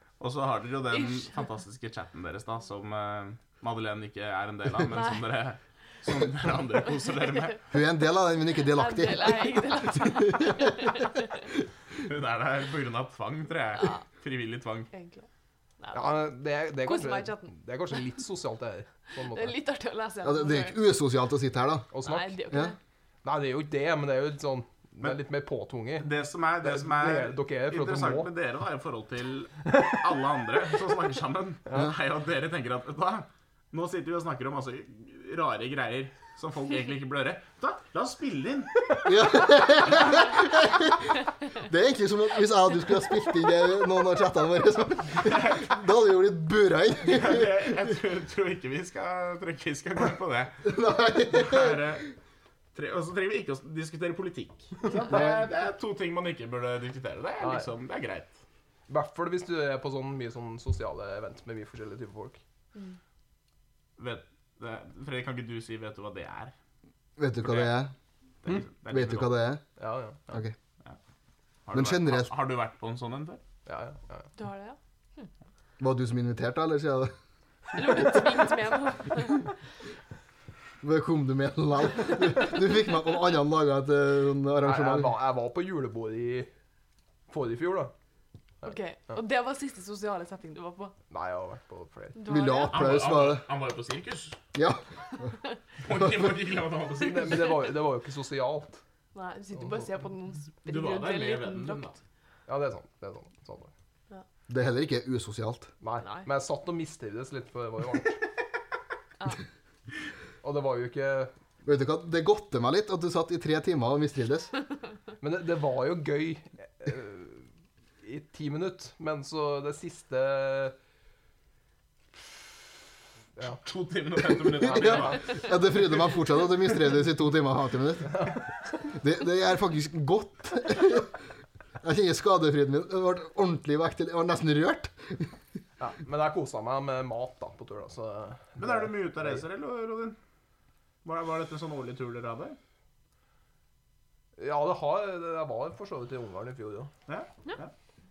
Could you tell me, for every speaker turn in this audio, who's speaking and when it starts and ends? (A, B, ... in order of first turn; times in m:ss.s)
0:00.2-0:07.6 A
0:04.9-0:05.2 B
0:07.7-0:11.0 C
0:08.7-0:11.5 B
0:12.0-0:14.9 A
0:14.9-0:15.2 B
0:15.8-0:16.2 B
0:15.9-0:19.6 D
0:16.8-0:17.5 B
0:19.3-0:20.8 B
0:20.2-0:21.9 C
0:21.9-0:22.4 D
0:22.0-0:22.8 B
0:23.2-0:26.1 D
0:26.0-0:39.0 A
0:26.6-0:28.3 D
0:29.7-0:30.0 D
0:31.7-0:31.9 D
0:39.0-0:47.7 C
0:45.2-0:45.7 A
0:47.0-0:50.6 A
0:50.6-0:51.8 C
0:51.3-0:52.0 A
0:52.7-0:58.3 A
0:55.1-0:55.4 C
0:57.4-0:57.7 D
0:58.9-1:02.4 D
1:04.0-1:06.5 A
1:07.2-1:07.9 C
1:07.4-1:07.8 A
1:08.4-1:09.4 A
1:08.9-1:09.6 C
1:09.8-1:10.4 D
1:10.3-1:10.5 C
1:11.6-1:13.4 A
1:11.7-1:12.3 C
1:13.6-1:14.3 D
1:14.4-1:15.3 B
1:15.8-1:17.1 C
1:17.7-1:19.5 B
1:20.8-1:25.2 C
1:24.6-1:26.5 D
1:27.3-1:27.9 D
1:28.6-1:29.2 D
1:28.6-1:30.9 B
1:31.1-1:32.2 D
1:32.1-1:32.9 B
1:32.2-1:33.4 C
1:32.7-1:34.4 A
1:34.5-1:34.8 C
1:35.8-1:37.6 A
1:37.0-1:38.8 D
1:39.1-1:42.0 B
1:40.6-1:41.9 A
1:42.5-1:43.7 D
1:44.5-1:45.7 C
1:45.8-1:48.2 D
1:46.0-1:46.2 B
1:50.4-1:51.3 D
1:51.6-1:54.5 C
1:55.2-1:57.5 D
1:58.0-2:00.8 D
2:03.6-2:05.4 A
2:04.6-2:05.4 D
2:04.7-2:08.3 C
2:08.1-2:08.4 D
2:08.9-2:11.1 C
2:11.8-2:15.3 C
2:15.8-2:19.4 D
2:18.6-2:20.2 A
2:21.0-2:22.6 A
2:24.4-2:26.9 D
2:27.1-2:27.7 A